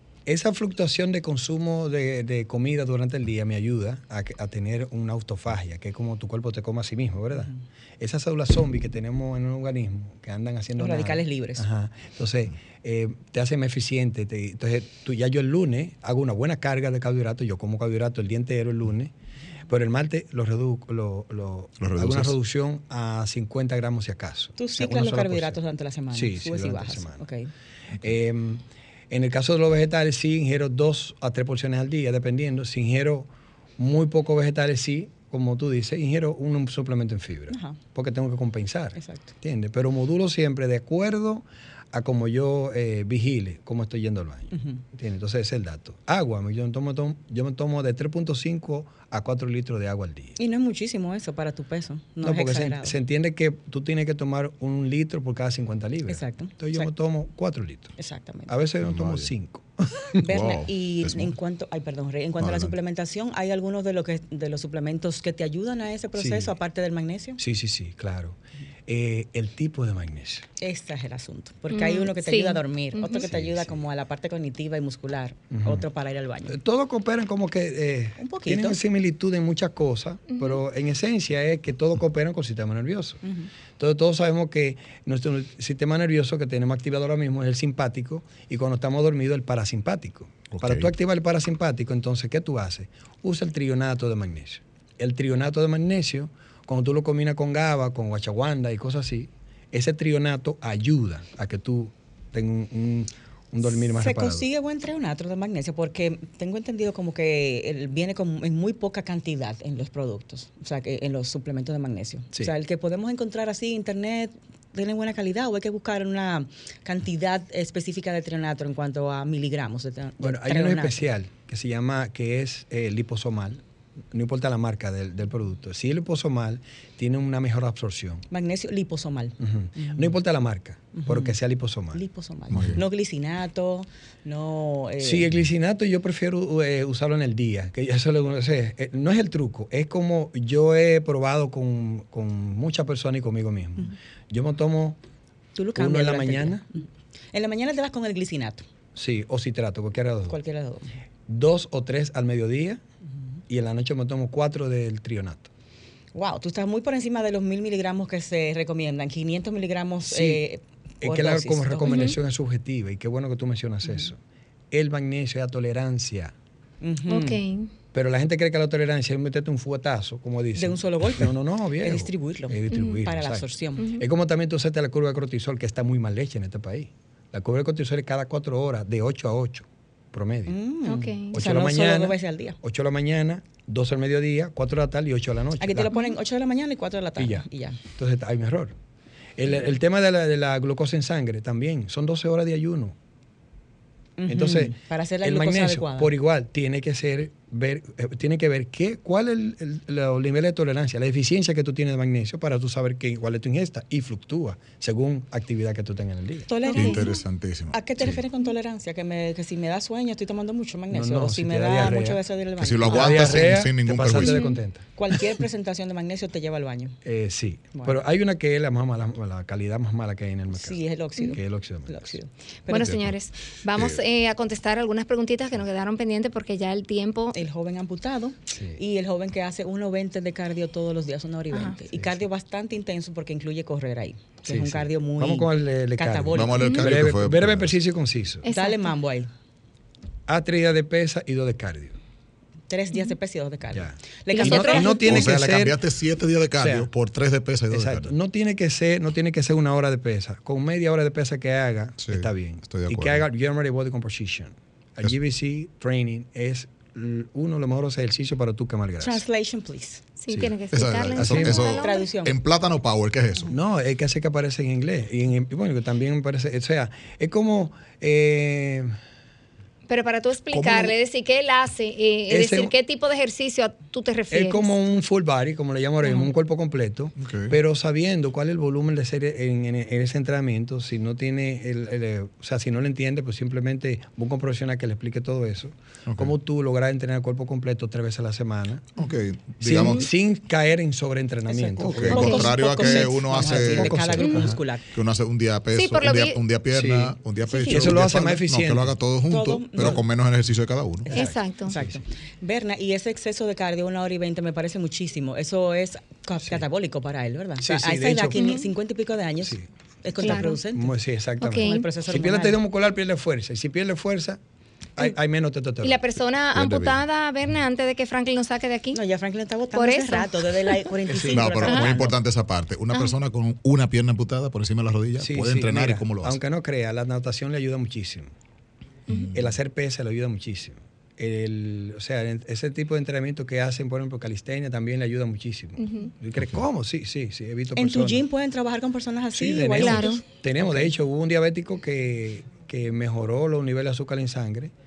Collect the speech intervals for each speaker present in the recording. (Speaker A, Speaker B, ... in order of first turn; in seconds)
Speaker A: 0.3-19.1, 19.7-25.6, 26.1-27.3, 28.0-50.4, 52.2-58.0, 58.5-60.2, 66.2-66.5, 67.4-70.5, 73.1-73.8, 75.5-75.8, 76.5-83.2, 83.8-104.5, 120.2-128.3, 129.4-132.0, 135.0-145.0, 145.8-146.6, 148.9-150.4, 151.3-152.8, 153.5-155.5, 160.1-160.4, 161.0-164.2, 164.7-166.3, 167.9-180.6, 181.3-185.9, 187.2-188.8, 189.4-192.9, 194.3-206.5, 210.9-212.2, 212.9-214.9, 217.1-222.2, 228.5-228.8, 231.9-232.2, 234.4-238.5, 240.3-242.0, 243.7-245.8, 246.6-246.9, 247.7-259.2, 261.1-261.6, 263.5-268.9, 272.3-272.7, 274.3-288.9, 289.6-292.5, 293.3-294.6, 296.7-298.9, 301.1-302.0, 307.6-308.5, 310.2-314.4, 315.0-316.0, 321.1-321.6, 325.2-328.3, 329.3-338.2, 339.3-344.7
Speaker B: 10.8-11.7, 24.6-27.5, 37.5-37.8, 39.0-39.2, 44.5-44.8, 50.4-53.0, 56.1-56.9, 58.0-58.5, 60.2-67.4, 70.6-76.6, 78.2-78.8, 83.2-83.5, 103.8-121.0, 128.3-130.1, 130.9-131.3, 131.9-135.3, 145.6-148.7, 150.3-151.0, 156.1-162.1, 166.8-167.4, 170.6-173.9, 180.5-182.6, 185.6-187.8, 194.2-196.1, 206.5-207.2, 207.7-213.5, 215.0-217.0, 220.5-223.0, 227.3-236.8, 238.5-239.3, 242.7-245.0, 259.0-260.1, 261.6-262.3, 291.5-294.8, 299.3-300.0, 301.7-310.9, 311.5-312.6, 318.9-322.2, 337.8-340.9
Speaker C: 21.8-22.3, 58.8-59.3, 60.2-61.3, 62.4-62.7, 90.5-90.9, 132.5-132.8, 206.7-208.2, 212.6-214.4, 222.7-223.2, 236.3-237.8, 245.1-248.1, 252.0-253.2, 260.3-263.5, 270.5-270.9, 277.2-277.6, 286.1-286.3, 289.0-290.1, 291.8-294.3, 294.8-301.1, 316.6-317.0, 321.3-326.4, 329.1-329.4
Speaker D: 71.7-73.3, 80.3-80.6, 161.9-162.2, 167.1-167.7, 172.7-173.0, 173.8-174.1, 180.9-181.3, 206.7-207.2, 214.2-214.6, 222.7-227.4, 236.6-236.9, 238.4-238.9, 244.3-245.3, 260.2-262.1, 269.9-274.7, 292.1-293.2, 295.7-296.4, 301.1-301.8, 308.3-308.7, 310.2-310.6, 311.4-311.8, 315.8-319.0, 319.7-320.9, 335.8-336.1, 339.8-340.2